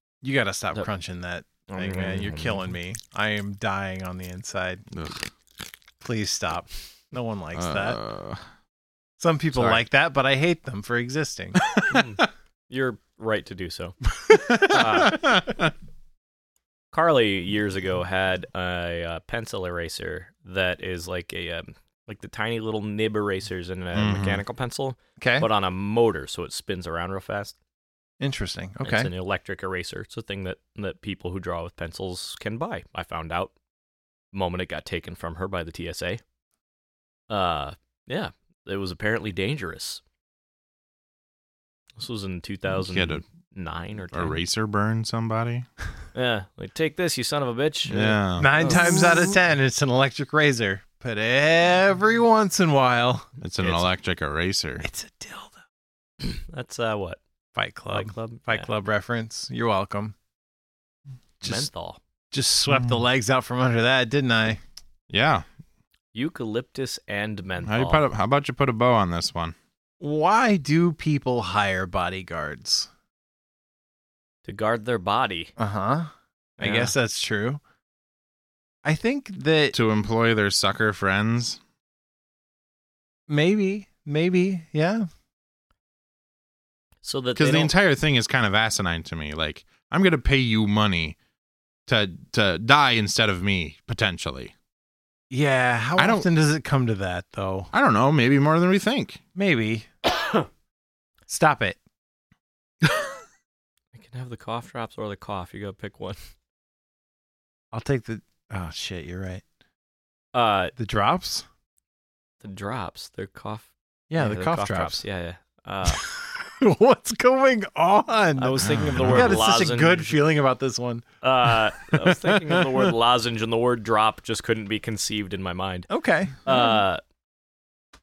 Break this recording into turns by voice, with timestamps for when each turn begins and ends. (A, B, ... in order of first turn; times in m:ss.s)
0:00.2-0:04.8 A
0:01.7-0:02.7 B
0:04.9-0:05.3 C
0:06.0-0:08.0 A
0:07.5-0:08.4 C
0:09.2-0:11.7 A
0:11.8-0:15.3 B
0:14.3-0:15.1 A
0:14.5-0:15.7 C
0:16.9-0:27.5 B
0:23.9-0:24.4 C
0:25.2-0:25.5 A
0:28.2-0:29.1 A
0:28.8-0:33.5 B
0:34.3-0:36.2 B
0:37.3-0:40.0 B
0:42.0-0:44.4 B
0:42.7-0:43.2 C
0:44.1-0:45.7 C
0:46.1-0:49.2 B
0:47.9-0:49.0 C
0:48.4-0:53.3 A
0:53.4-0:54.8 C
0:53.6-0:53.8 B
0:54.8-0:55.6 A
0:56.2-0:57.2 B
0:57.5-1:00.1 A
0:57.9-0:58.7 B
1:01.4-1:01.7 A
1:01.4-1:02.0 B
1:02.3-1:04.6 A
1:02.7-1:03.0 C
1:05.1-1:05.4 C
1:06.1-1:08.0 B
1:07.6-1:09.6 C
1:10.0-1:12.9 A
1:14.4-1:15.5 B
1:15.6-1:17.6 A
1:16.6-1:16.9 B
1:18.8-1:19.8 A
1:19.7-1:21.6 C
1:23.3-1:25.1 A
1:27.0-1:27.7 B
1:27.4-1:31.2 C
1:31.9-1:34.5 C
1:35.3-1:37.7 A
1:36.0-1:36.2 C
1:37.7-1:39.2 C
1:39.3-1:39.9 A
1:41.3-1:41.8 A
1:43.9-1:46.2 B
1:47.7-1:49.4 A
1:50.3-1:50.7 B
1:50.8-1:51.4 A
1:52.4-1:56.0 B
1:54.1-1:55.0 A
1:55.9-2:02.9 A
1:58.4-2:00.2 B
1:58.6-1:59.3 C
2:01.2-2:05.9 B
2:05.9-2:06.8 A
2:06.4-2:07.0 B